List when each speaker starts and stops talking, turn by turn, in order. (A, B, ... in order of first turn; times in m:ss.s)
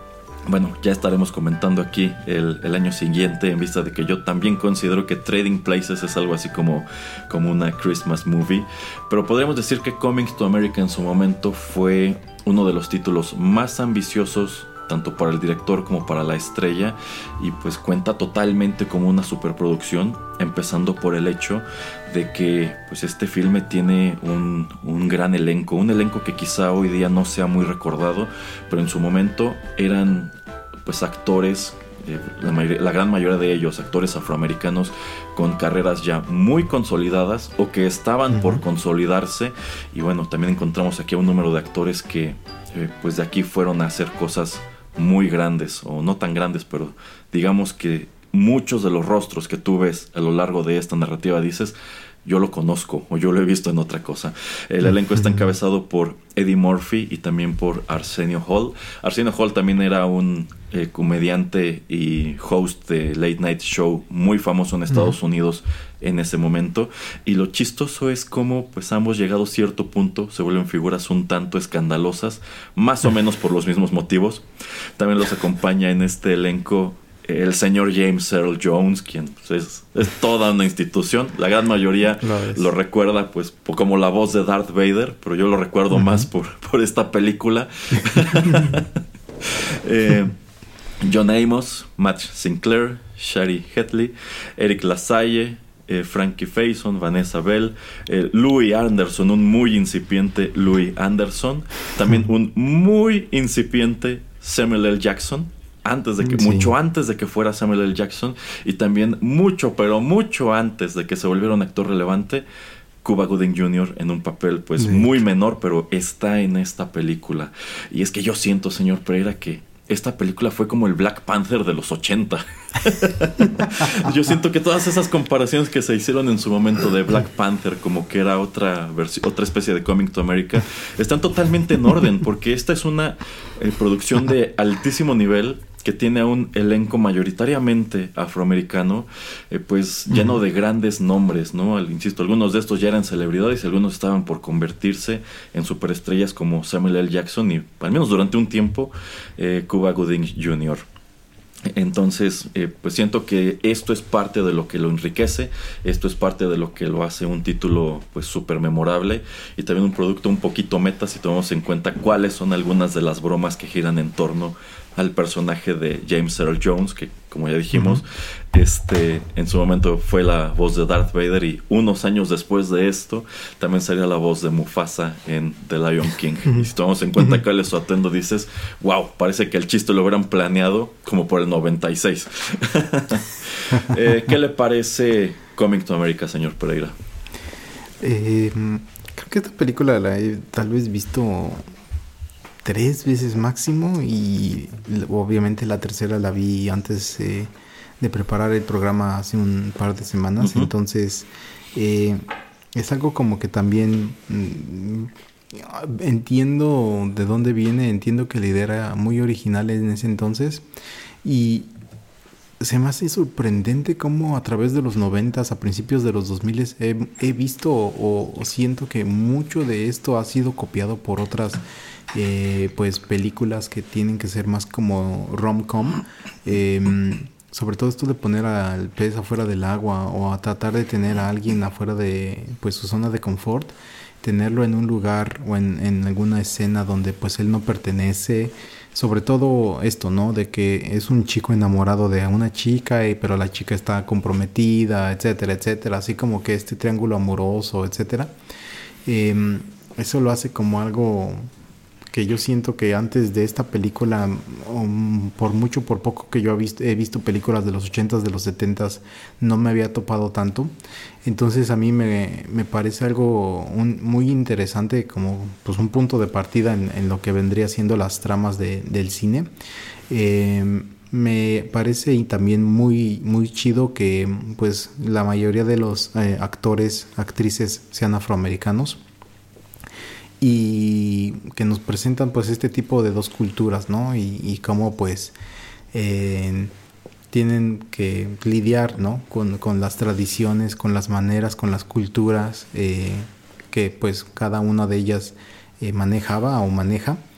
0:00.4-0:30.3 A
0:30.8-1:14.4 A
0:38.3-0:38.6 B
1:15.0-1:28.9 A
1:22.2-1:22.7 B
1:29.4-1:30.3 A
1:31.0-1:52.4 A
1:46.2-1:46.7 B
1:53.0-2:30.8 A
1:54.8-1:55.2 B
2:31.7-3:06.9 A
2:47.7-2:48.0 B
3:08.0-3:11.7 B
3:12.6-3:30.6 B
3:20.4-3:20.7 A
3:31.2-3:31.7 B
3:32.6-4:08.3 B
4:09.0-4:11.5 B
4:12.1-4:20.7 B
4:21.2-4:29.5 B
4:30.1-4:39.0 B
4:40.4-4:45.3 B
4:45.9-4:46.7 B
4:47.3-4:57.2 B